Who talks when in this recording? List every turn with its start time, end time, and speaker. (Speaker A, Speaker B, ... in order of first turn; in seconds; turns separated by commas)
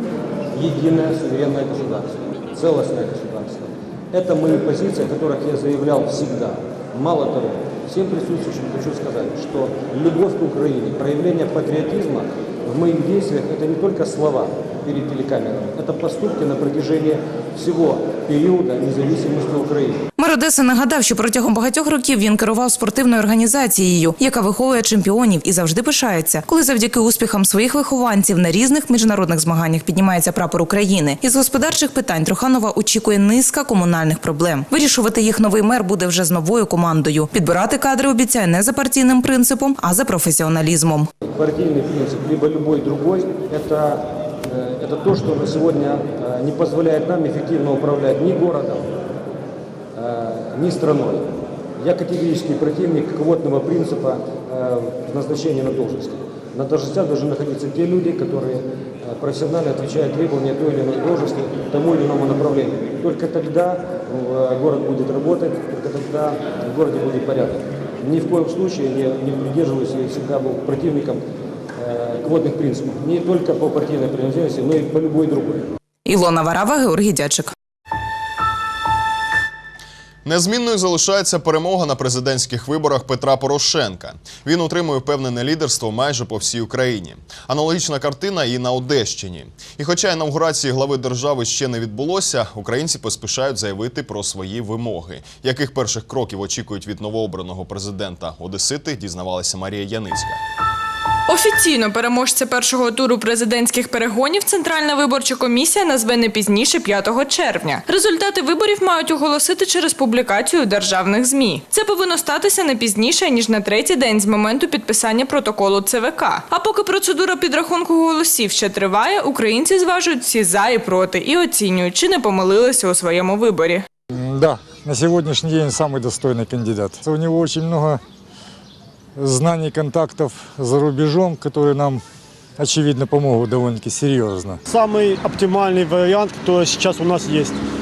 Speaker A: 0.5-20.0, Speaker B: 20.2-41.1, Speaker A: 41.2-48.9, Speaker A: 50.0-51.3, Speaker A: 51.8-71.2, Speaker A: 71.8-75.7, Speaker B: 76.0-77.5, Speaker C: 80.2-100.4, Speaker D: 101.3-123.8, Speaker E: 124.2-128.0, Speaker E: 129.2-132.0, Speaker E: 132.6-134.6, Speaker F: 134.7-137.6